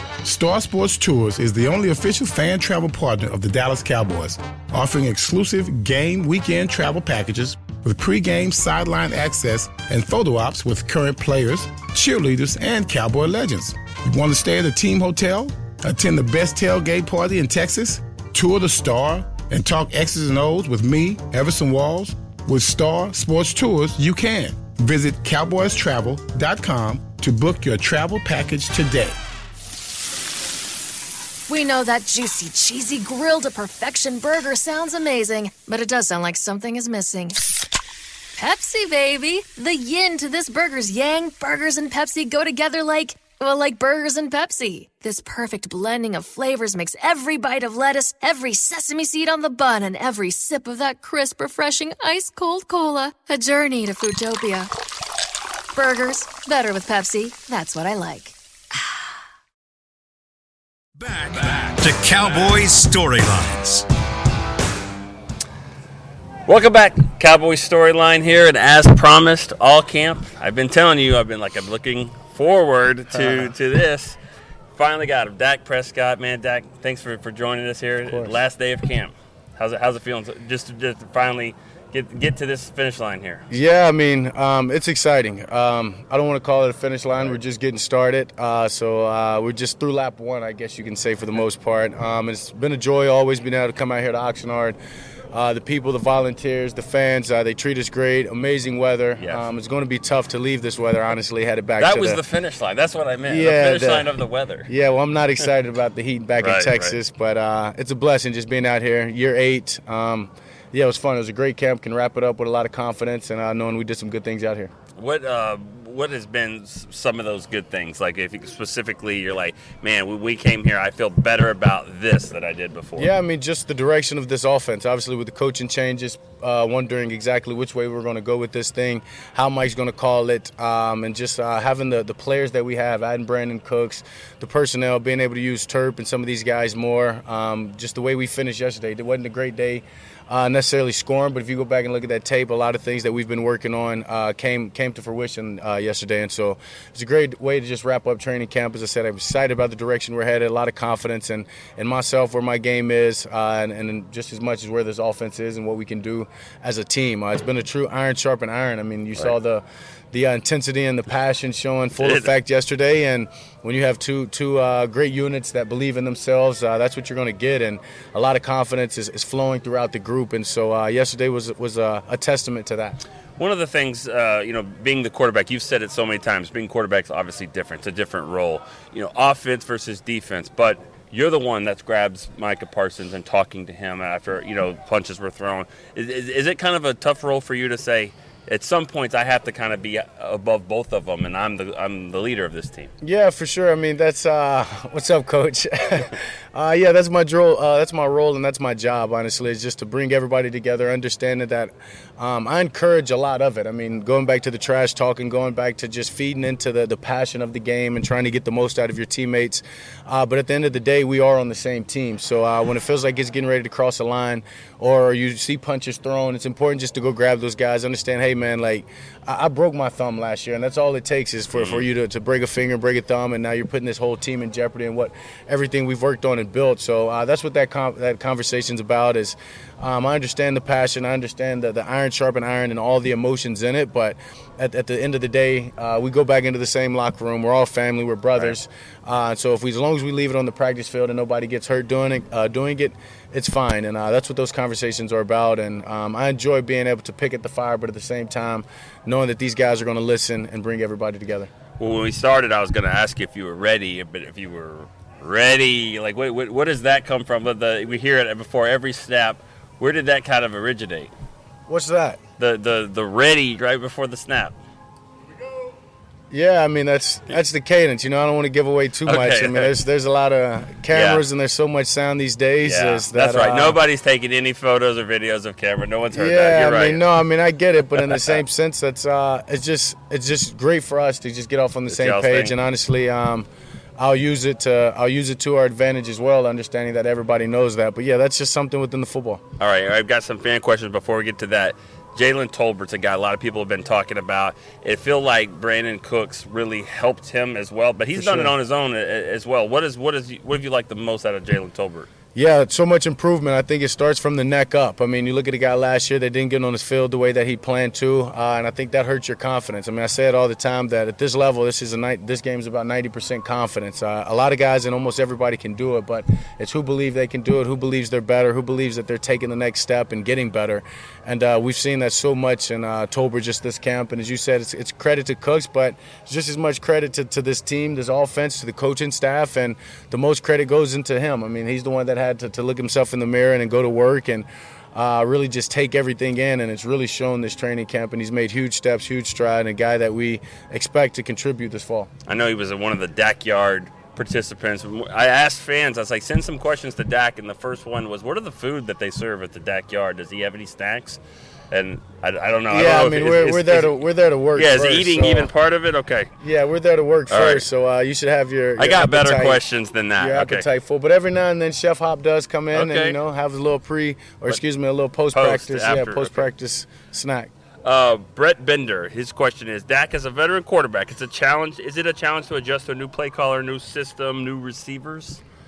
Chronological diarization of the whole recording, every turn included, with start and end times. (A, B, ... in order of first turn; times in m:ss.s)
0:00.2-0:29.2 A
0:31.5-0:37.4 B
0:38.4-0:54.7 B
0:55.7-0:59.0 B
1:01.0-1:03.9 C
1:06.5-1:14.2 D
1:13.1-1:13.5 E
1:14.7-1:23.4 D
1:18.1-1:18.3 E
1:23.5-1:34.8 E
1:35.3-1:42.2 E
1:39.2-1:39.4 D
1:41.8-1:44.7 D
1:43.2-1:44.1 E
1:44.7-1:54.7 E
1:46.4-1:47.0 D
1:55.0-2:03.1 D
2:03.0-2:53.0 E
2:42.0-2:42.3 D
2:53.4-3:12.9 D
3:13.0-4:11.5 E
3:41.5-3:41.9 D
4:11.8-4:21.1 D
4:21.7-4:22.2 E
4:22.4-4:24.5 D
4:26.3-4:33.8 E
4:29.0-4:29.7 D
4:30.9-4:31.2 D
4:32.6-4:37.0 D
4:36.1-4:49.4 E
4:38.0-4:38.4 D
4:41.9-4:42.5 D
4:49.6-5:02.1 D
4:58.2-4:58.5 E
5:02.3-5:42.1 E
5:42.3-5:51.2 D
5:51.7-5:54.0 D
5:52.7-5:55.5 E
5:54.5-5:56.3 D
5:56.4-5:59.6 E
5:57.3-5:57.7 D
5:58.8-6:00.7 D
6:00.2-6:07.5 E
6:02.7-6:03.2 D
6:05.3-6:06.5 D
6:07.8-6:15.4 D